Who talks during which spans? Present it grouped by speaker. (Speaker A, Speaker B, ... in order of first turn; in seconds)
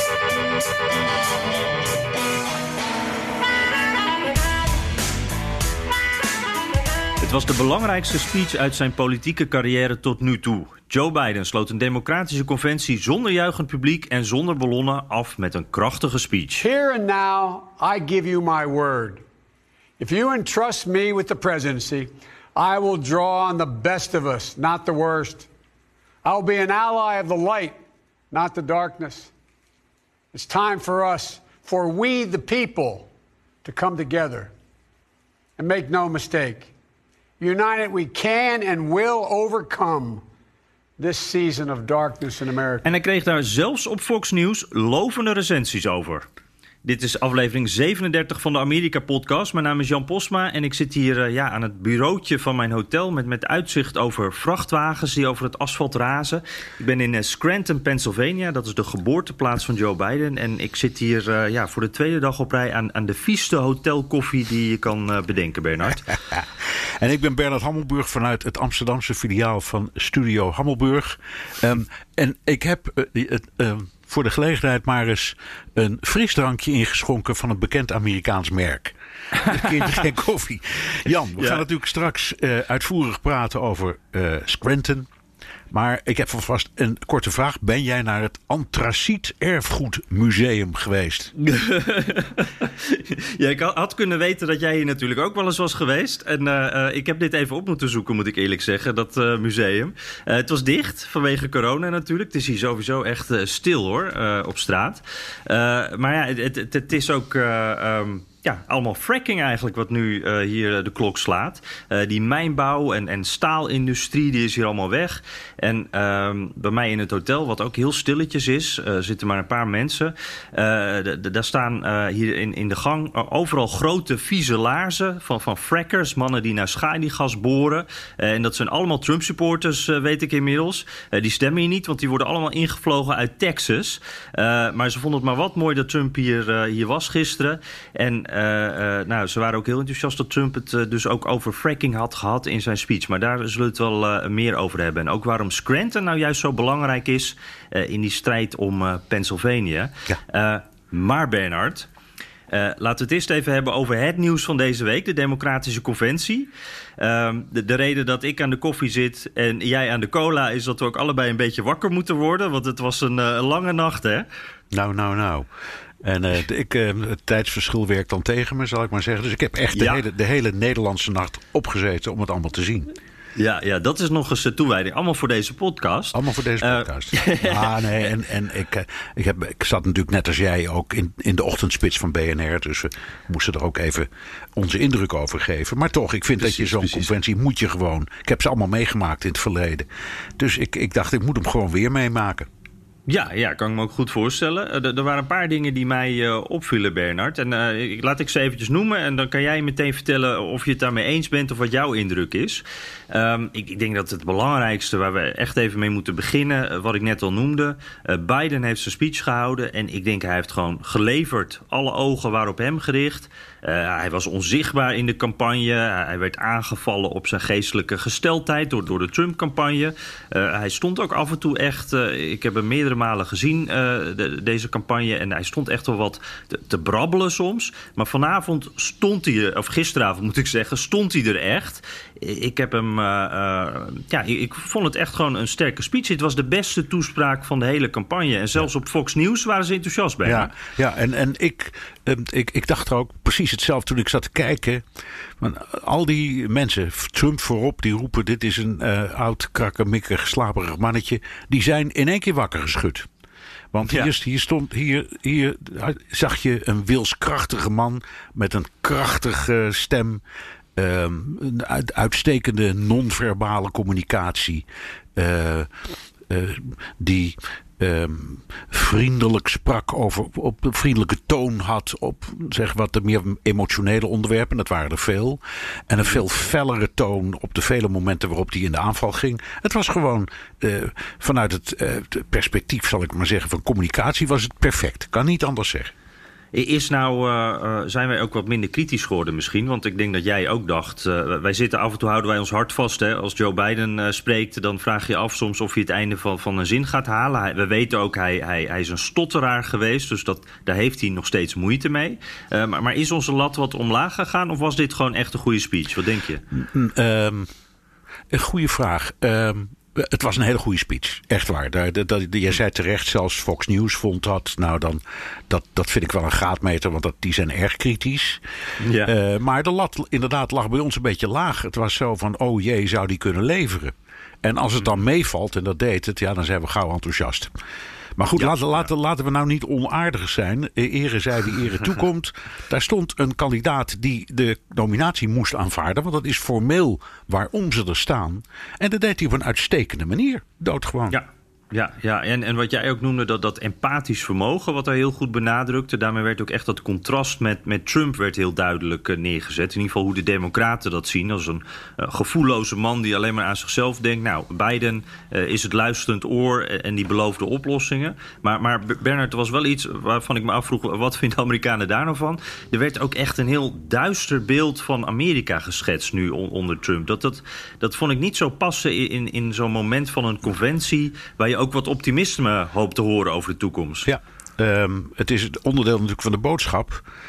Speaker A: 7.2-16.7, 42.8-46.2, 46.8-66.1, 79.4-80.0, 91.4-151.9, 152.5-156.5, 157.0-164.2, 169.7-170.0, 173.3-177.8, 186.4-187.1, 193.1-240.5, 253.8-254.1, 286.5-306.4, 318.8-319.1, 328.4-328.9, 341.1-374.1
Speaker B: 16.6-19.2, 20.0-25.5, 26.2-29.3, 30.3-33.1, 33.6-34.5, 35.6-36.7, 37.4-40.2, 41.0-42.9
Speaker C: 66.1-85.1, 85.7-91.3, 164.7-165.5, 166.0-172.9, 176.1-189.9, 190.4-192.5, 240.2-244.8, 245.4-253.1, 253.7-260.2, 260.8-264.6, 265.1-265.7, 266.3-285.9, 306.5-307.5, 308.3-318.4, 319.0-327.5, 328.1-341.2, 374.0-377.0